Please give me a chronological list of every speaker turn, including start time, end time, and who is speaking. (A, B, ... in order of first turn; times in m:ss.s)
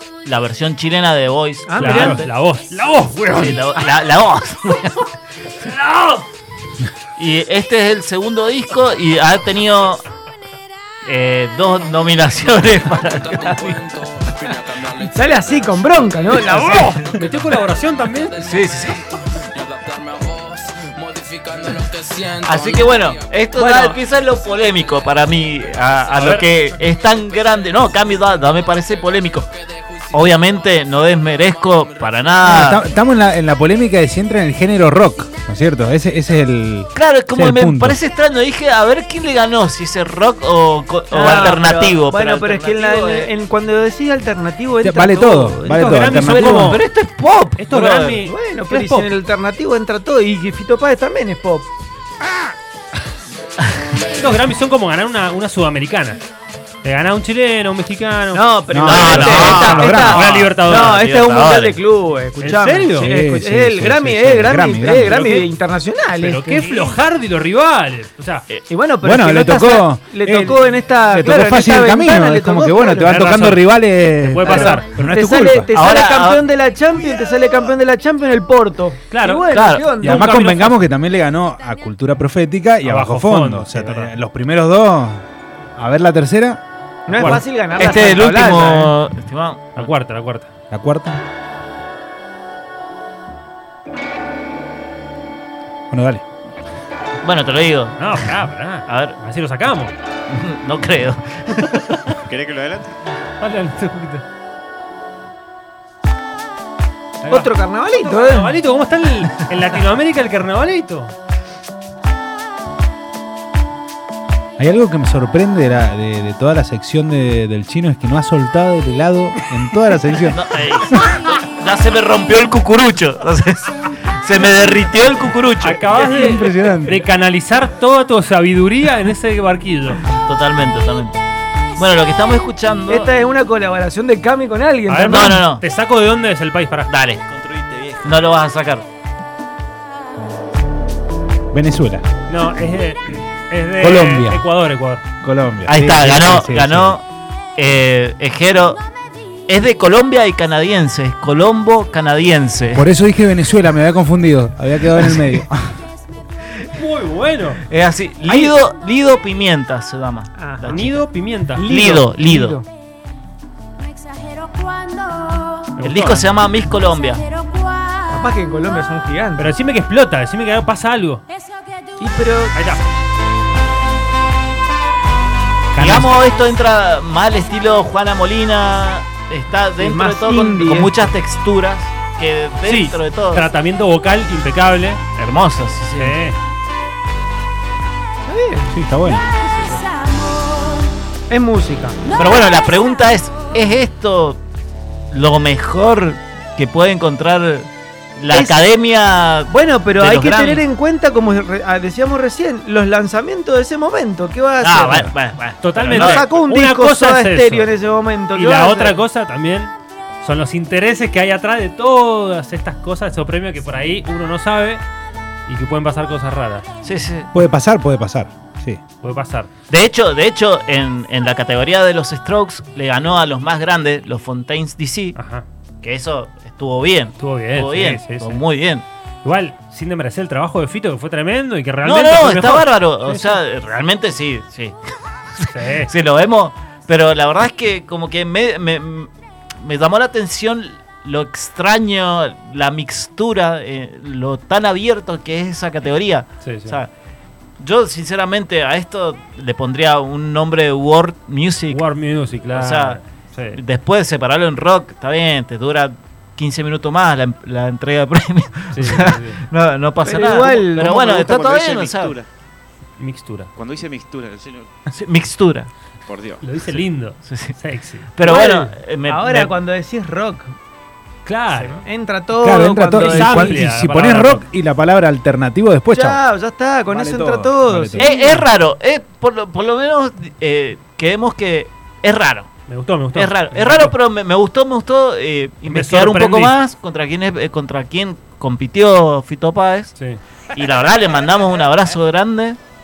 0:00.2-0:02.3 A
0:01.6-0:02.2 B
0:01.8-0:03.8 C
0:03.3-0:05.1 A
0:05.6-0:06.2 A
0:07.2-0:10.0 A
0:11.0-0:13.8 A
0:15.0-0:17.0 B
0:16.4-0:18.4 C
0:18.4-0:19.1 A
0:19.8-0:20.6 D
0:22.4-0:29.5 A
0:23.6-0:24.0 B
0:26.2-0:26.5 C
0:30.1-0:32.8 A
0:32.4-0:38.0 E
0:36.9-0:43.3 A
0:41.1-0:46.1 B
0:44.8-0:46.8 E
0:45.7-0:46.8 C
0:46.1-0:48.2 A
0:47.6-0:49.1 C
0:48.2-0:51.7 B
0:54.0-0:56.2 C
0:56.8-1:01.0 C
0:58.3-1:06.8 B
0:58.7-1:00.4 E
0:58.8-1:01.8 A
1:02.4-1:03.1 C
1:03.0-1:05.4 E
1:06.2-1:08.5 C
1:08.7-1:13.1 B
1:09.0-1:15.7 E
1:13.0-1:13.6 C
1:14.2-1:14.9 C
1:14.5-1:20.4 B
1:15.7-1:16.4 A
1:19.1-1:20.8 C
1:19.5-1:19.9 A
1:20.0-1:25.2 E
1:22.8-1:24.1 C
1:25.8-1:26.6 E
1:27.1-1:28.9 B
1:27.1-1:27.4 C
1:27.8-1:29.9 A
1:29.8-1:30.5 C
1:30.7-1:31.2 E
1:35.9-1:36.2 E
1:37.2-1:38.2 A
1:38.0-1:39.9 C
1:38.9-1:39.2 A
1:40.3-1:42.2 A
1:42.2-1:43.0 F
1:43.4-1:44.2 C
1:47.2-1:51.1 C
1:47.3-1:48.6 B
1:54.6-2:00.4 E
2:00.3-2:06.4 A
2:05.6-2:10.1 C
2:06.1-2:07.0 E
2:10.1-2:11.2 A
2:11.8-2:13.1 A
2:12.9-2:15.4 B
2:14.9-2:16.9 C
2:15.1-2:15.6 A
2:16.9-2:18.9 A
2:21.5-2:22.0 E
2:22.3-2:25.0 C
2:23.8-2:24.4 E
2:25.2-2:27.0 E
2:25.6-2:27.0 A
2:27.6-2:28.8 A
2:29.5-2:32.9 A
2:32.7-2:35.6 E
2:35.0-2:35.4 A
2:36.7-2:37.6 C
2:37.7-2:41.0 A
2:40.4-2:40.8 B
2:40.7-2:41.6 C
2:41.5-2:42.6 B
2:41.6-2:42.6 A
2:44.8-2:45.2 D
2:45.8-2:46.3 C
2:45.8-2:47.2 A
2:48.1-2:49.5 B
2:49.4-2:51.2 C
2:52.0-2:52.6 B
2:52.5-2:52.8 C
2:55.7-2:56.1 C
2:55.8-3:03.4 A
2:59.8-3:00.9 B
3:02.7-3:03.0 B
3:03.3-3:05.0 C
3:05.2-3:06.2 A
3:06.0-3:06.4 C
3:08.2-3:08.7 B
3:08.7-3:09.2 E
3:10.0-3:10.8 D
3:11.3-3:12.0 B
3:12.1-3:14.4 A
3:15.1-3:20.6 A
3:18.3-3:18.6 B
3:19.5-3:25.1 B
3:24.6-3:26.3 A
3:25.6-3:27.7 C
3:25.8-3:29.0 B
3:28.3-3:34.8 C
3:35.5-3:36.7 C
3:36.8-3:37.3 A
3:37.3-3:38.8 E
3:39.0-3:39.5 C
3:39.7-3:45.2 A
3:45.1-3:45.4 C
3:45.8-3:48.8 A
3:47.2-3:48.4 C
3:49.2-3:53.4 C
3:51.8-3:54.8 A
3:55.3-4:06.9 A
3:55.5-3:55.9 C
4:06.4-4:06.8 C
4:07.6-4:11.8 A
4:11.7-4:13.6 C
4:12.5-4:13.0 A
4:13.5-4:22.2 A
4:18.7-4:19.4 C
4:20.0-4:21.1 B
4:20.7-4:22.3 F
4:23.0-4:23.5 C
4:23.6-4:24.7 F
4:24.9-4:25.7 A
4:26.1-4:26.7 F
4:26.4-4:28.1 C
4:27.2-4:27.6 A
4:28.1-4:29.5 A
4:28.2-4:30.5 B
4:31.2-4:31.8 C
4:31.5-4:33.6 B
4:32.4-4:36.2 E
4:33.0-4:34.4 C
4:35.9-4:38.4 B
4:36.9-4:38.1 E
4:38.0-4:42.5 A
4:42.7-4:44.0 C
4:43.1-4:49.9 A
4:45.6-4:46.6 C
4:50.5-4:52.6 A